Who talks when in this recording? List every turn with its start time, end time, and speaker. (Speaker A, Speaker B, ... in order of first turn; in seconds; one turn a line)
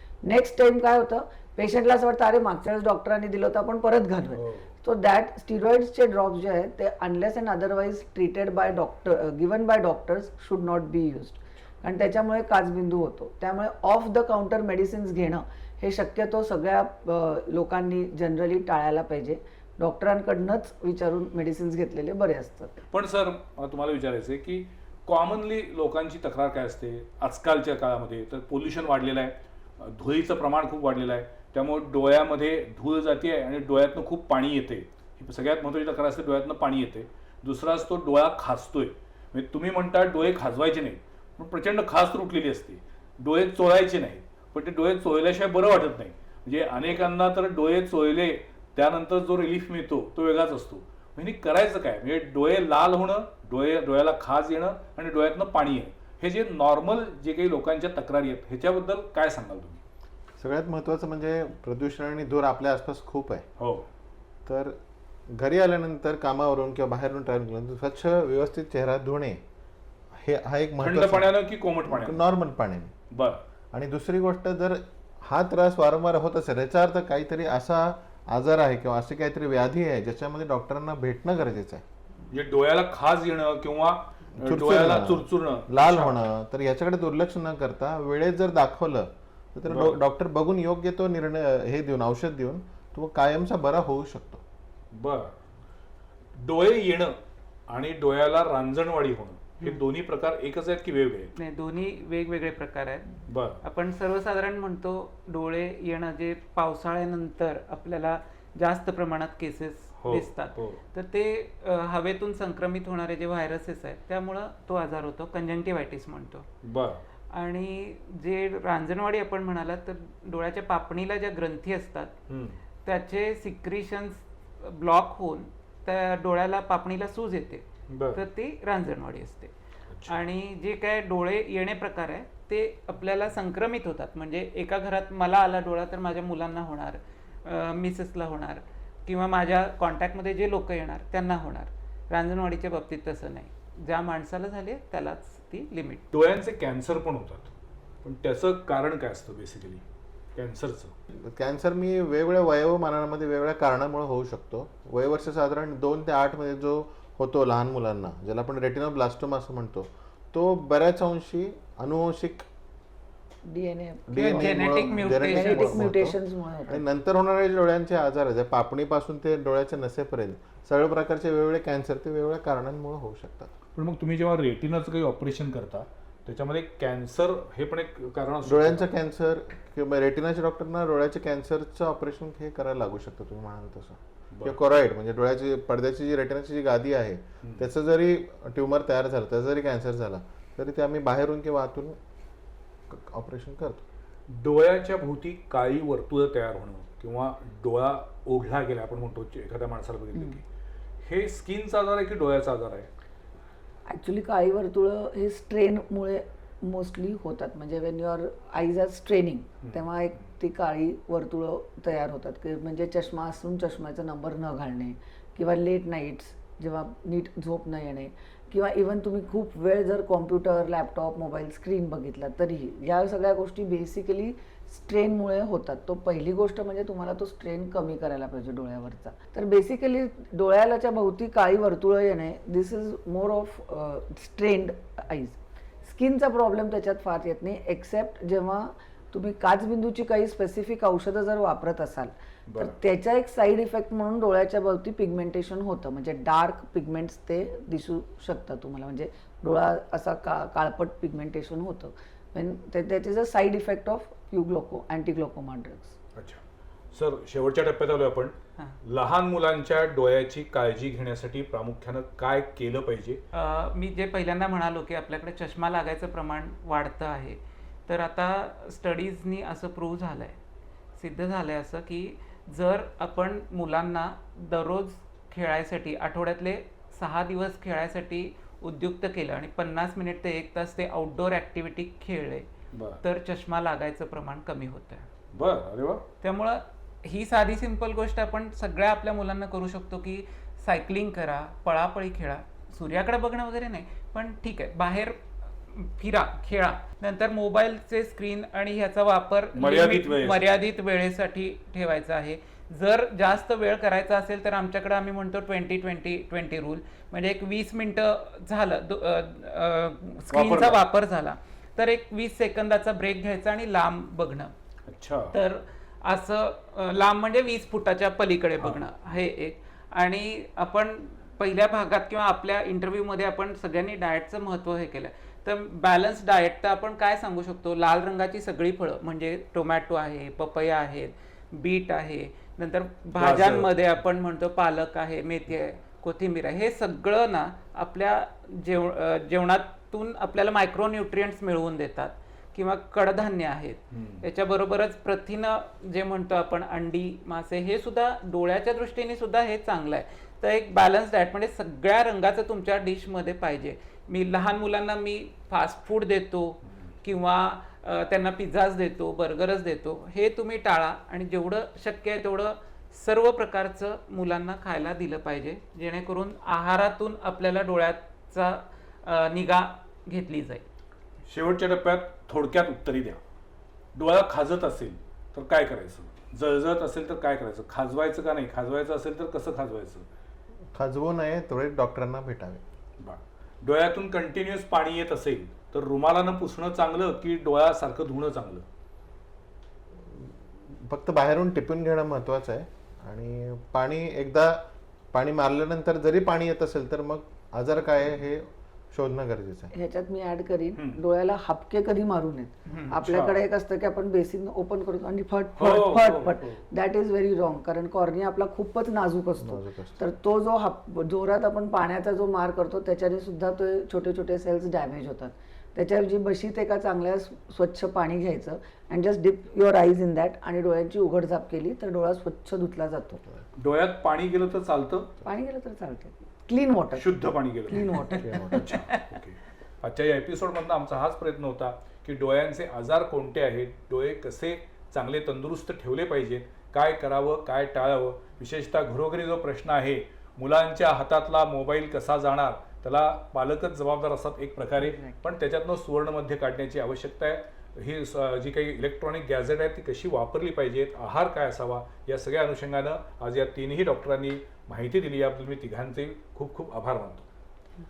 Speaker A: 0.2-22.7
Speaker B: 4.3-4.7
Speaker B: 22.9-59.8
Speaker C: 60.4-63.5
Speaker B: 63.6-63.9
Speaker C: 64.5-64.8
Speaker C: 65.3-69.4
Speaker C: 70.2-72.9
Speaker B: 70.8-72.2
Speaker B: 73.1-73.4
Speaker C: 73.7-81.8
Speaker B: 82.3-86.2
Speaker C: 84.4-94.4
Speaker B: 89.7-90.0
Speaker B: 94.9-95.4
Speaker B: 96.4-97.2
Speaker B: 97.7-101.3
Speaker D: 101.4-103.1
Speaker B: 103.3-103.6
Speaker D: 103.6-116.5
Speaker B: 110.0-110.8
Speaker B: 116.6-117.0
Speaker D: 117.3-122.1
Speaker B: 122.3-122.6
Speaker D: 122.8-129.5
Speaker B: 127.9-128.2
Speaker B: 129.9-130.2
Speaker D: 130.1-146.1
Speaker B: 146.1-147.5
Speaker B: 148.0-149.8
Speaker B: 150.3-150.9
Speaker C: 151.1-162.4
Speaker A: 163.4-166.8
Speaker C: 164.1-173.5
Speaker D: 164.2-165.9
Speaker B: 173.7-178.9
Speaker C: 178.4-192.0
Speaker C: 192.9-193.8
Speaker B: 194.3-200.4
Speaker B: 201.0-202.9
Speaker A: 203.9-255.9
Speaker B: 242.5-242.8
Speaker B: 256.1-256.4
Speaker B: 256.9-263.2
Speaker D: 263.3-270.4
Speaker D: 271.0-282.5
Speaker B: 282.7-283.0
Speaker D: 283.0-285.1
Speaker B: 285.3-286.1
Speaker D: 286.2-314.5
Speaker B: 299.5-300.4
Speaker B: 310.3-310.8
Speaker B: 314.9-315.4
Speaker D: 315.3-370.6
Speaker B: 333.1-333.7
Speaker B: 343.9-344.2
Speaker B: 371.3-373.2
Speaker B: 373.9-380.1
Speaker C: 380.7-382.6
Speaker B: 383.0-388.6
Speaker C: 390.1-399.7
Speaker A: 399.7-423.2
Speaker B: 400.7-401.0
Speaker D: 402.7-402.9
Speaker B: 402.9-403.4
Speaker B: 405.6-406.6
Speaker C: 409.4-410.0
Speaker B: 423.6-425.2
Speaker A: 425.2-428.8
Speaker B: 426.9-457.2
Speaker D: 428.7-429.0
Speaker A: 444.8-445.1